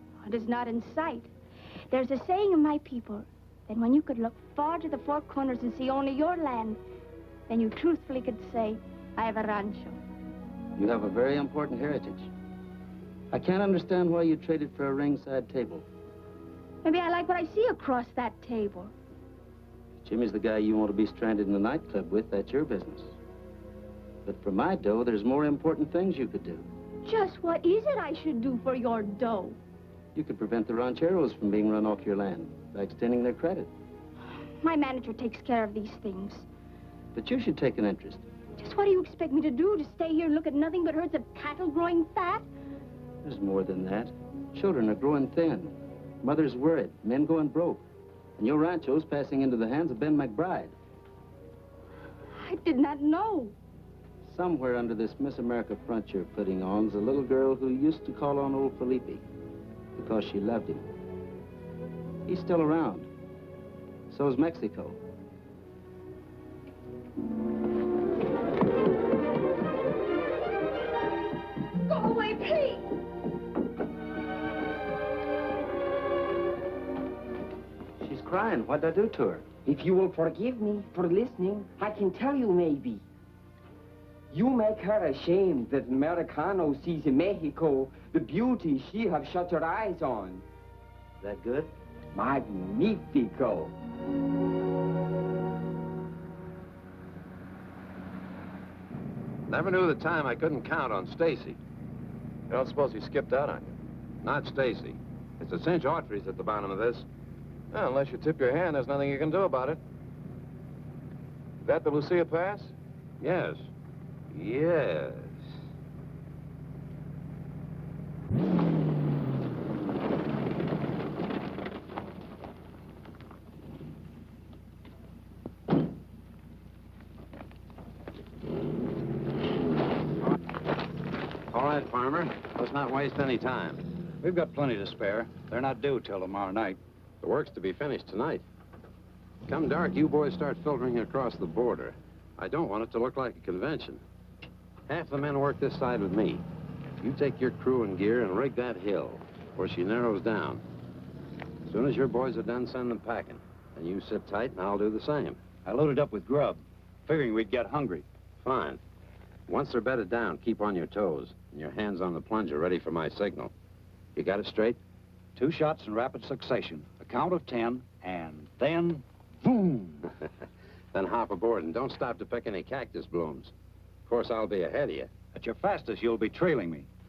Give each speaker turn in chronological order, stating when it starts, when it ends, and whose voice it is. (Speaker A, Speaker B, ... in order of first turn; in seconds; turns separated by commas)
Speaker A: 0.2-1.3, Speaker A: 1.9-6.8, Speaker A: 7.5-10.0, Speaker B: 10.8-12.3, Speaker B: 13.3-15.8, Speaker A: 16.8-18.9, Speaker B: 20.0-23.1, Speaker B: 24.2-26.7, Speaker A: 27.0-29.6, Speaker B: 30.1-33.7, Speaker A: 34.6-36.5, Speaker B: 37.1-38.2, Speaker A: 38.6-42.5, Speaker B: 43.2-47.8, Speaker B: 48.4-50.7, Speaker A: 52.3-53.5, Speaker B: 54.2-59.2, Speaker B: 60.0-60.8, Speaker B: 62.3-63.1, Speaker B: 64.1-65.0, Speaker A: 71.9-72.8, Speaker B: 78.0-79.5, Speaker C: 79.7-83.0, Speaker C: 84.3-90.4, Speaker B: 91.2-91.7, Speaker C: 92.1-93.7, Speaker D: 99.5-101.6, Speaker E: 102.5-103.7, Speaker D: 104.2-107.1, Speaker E: 107.7-109.8, Speaker E: 111.7-112.7, Speaker D: 113.2-113.7, Speaker D: 114.3-115.4, Speaker D: 131.5-133.8, Speaker F: 134.2-136.8, Speaker D: 137.2-138.4, Speaker D: 139.5-144.0, Speaker D: 144.9-146.4, Speaker D: 147.0-150.6, Speaker D: 151.7-155.5, Speaker F: 155.6-158.1, Speaker D: 158.4-158.8, Speaker D: 159.5-163.5, Speaker D: 164.2-164.8, Speaker F: 165.4-169.9, Speaker D: 170.9-173.5, Speaker D: 174.1-175.1, Speaker F: 175.3-176.9